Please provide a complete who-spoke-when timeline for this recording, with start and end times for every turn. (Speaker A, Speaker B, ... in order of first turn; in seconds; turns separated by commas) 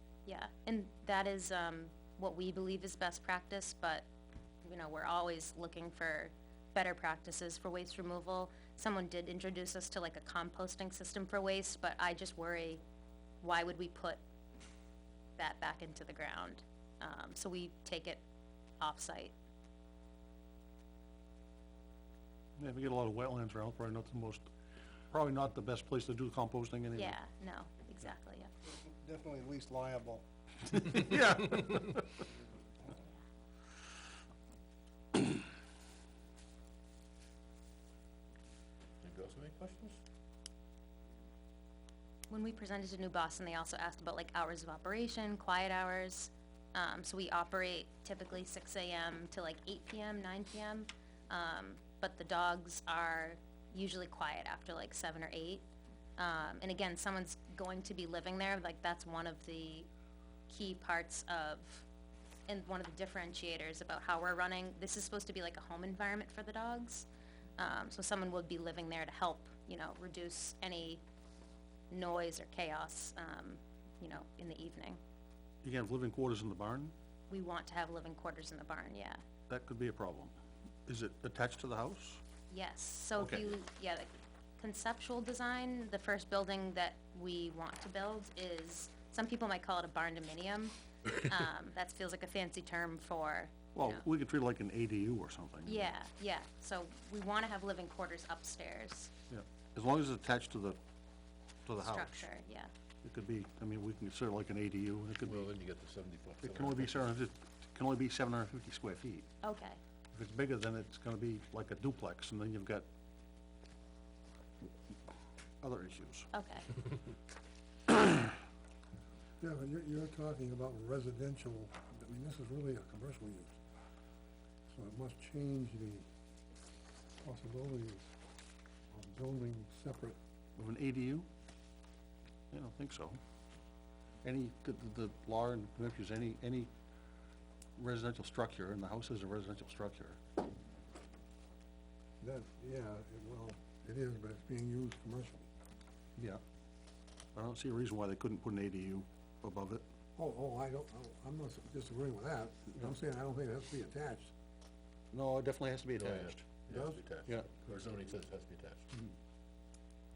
Speaker A: 0.2-4.0, Speaker A: 4.6-12.8, Speaker A: 13.4-14.2, Speaker A: 15.4-18.2, Speaker A: 18.8-19.3, Speaker B: 22.6-24.5, Speaker B: 25.1-27.1, Speaker A: 26.9-28.5, Speaker C: 28.8-30.9, Speaker B: 30.9-32.0, Speaker D: 39.0-40.0, Speaker A: 42.3-55.6, Speaker A: 56.2-59.9, Speaker A: 60.5-61.9, Speaker A: 62.5-67.0, Speaker A: 67.6-71.0, Speaker A: 71.9-75.0, Speaker B: 75.6-76.9, Speaker A: 77.3-79.2, Speaker B: 79.5-80.3, Speaker B: 80.9-82.2, Speaker A: 82.5-94.0, Speaker B: 83.2-83.5, Speaker B: 93.7-95.9, Speaker A: 95.7-99.1, Speaker B: 99.3-100.8, Speaker B: 101.7-102.3, Speaker A: 101.8-102.7, Speaker B: 103.0-105.5, Speaker D: 105.2-107.0, Speaker B: 106.4-109.3, Speaker A: 109.4-109.8, Speaker B: 110.1-112.8, Speaker B: 115.6-116.3, Speaker A: 116.3-116.7, Speaker C: 119.4-123.6, Speaker C: 124.7-126.0, Speaker C: 127.2-128.0, Speaker C: 128.9-130.2, Speaker B: 130.6-131.2, Speaker B: 132.5-133.2, Speaker B: 134.2-136.7, Speaker B: 137.8-140.2, Speaker C: 142.2-145.5, Speaker B: 147.3-149.8, Speaker C: 150.2-154.3, Speaker B: 155.1-156.5, Speaker D: 156.0-158.9, Speaker C: 156.7-157.0, Speaker B: 157.2-157.7